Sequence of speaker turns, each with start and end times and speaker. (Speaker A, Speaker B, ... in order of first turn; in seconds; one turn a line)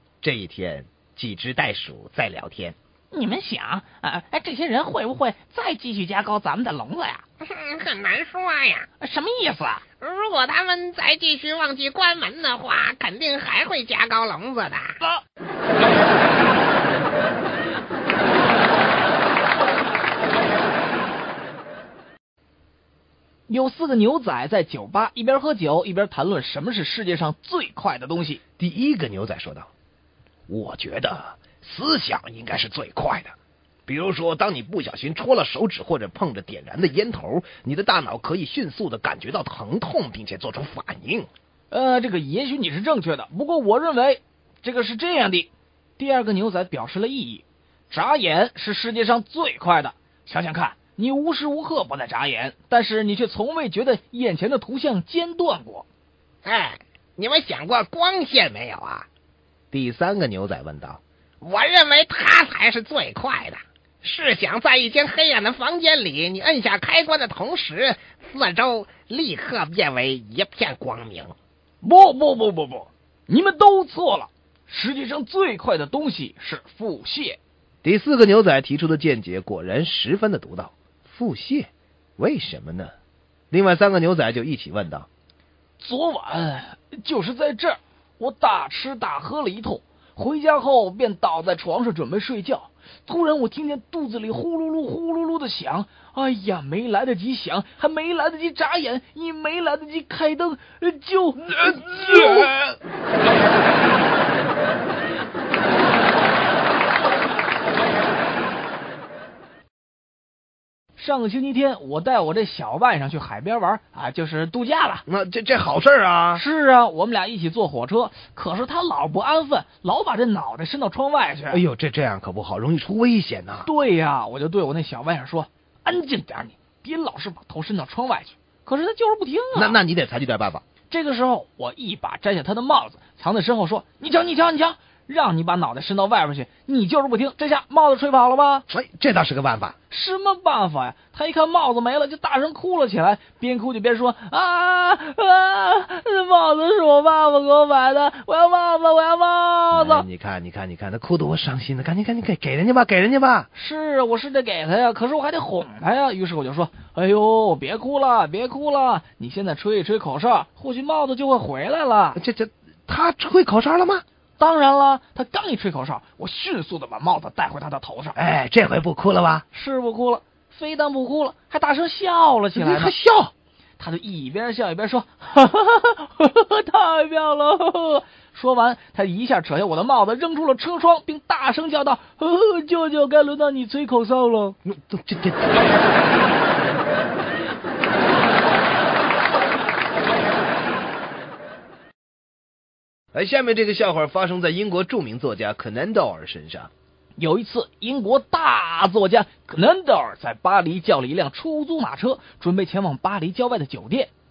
Speaker A: 0.2-2.8
Speaker B: 3.1-7.2
Speaker C: 7.8-8.3
Speaker A: 8.6-8.9
Speaker B: 9.0-9.9
Speaker C: 10.1-14.8
Speaker B: 23.5-28.4
Speaker A: 28.6-29.7
Speaker A: 30.5-33.3
Speaker A: 33.9-41.3
Speaker B: 41.7-55.9
Speaker C: 57.2-58.8
Speaker A: 59.7-61.0
Speaker C: 61.5-62.9
Speaker A: 63.3-63.6
Speaker C: 64.0-68.2
Speaker A: 68.1-71.3
Speaker B: 71.8-77.4
Speaker A: 77.8-82.9
Speaker A: 83.5-85.1
Speaker B: 85.8-102.6
Speaker A: 101.8-102.5
Speaker B: 111.0-115.0
Speaker A: 115.1-116.4
Speaker B: 116.3-121.6
Speaker A: 121.5-123.7
Speaker B: 123.7-129.8
Speaker A: 129.6-130.6
Speaker B: 130.9-138.7
Speaker A: 138.7-139.8
Speaker B: 139.9-150.1
Speaker A: 149.7-153.5
Speaker B: 153.5-162.2
Speaker A: 162.2-164.0
Speaker B: 164.4-168.2
Speaker A: 168.2-169.5
Speaker B: 169.5-172.9
Speaker A: 172.6-173.3
Speaker B: 173.8-184.6
Speaker A: 184.7-185.7
Speaker A: 193.1-196.7
Speaker B: 197.2-204.1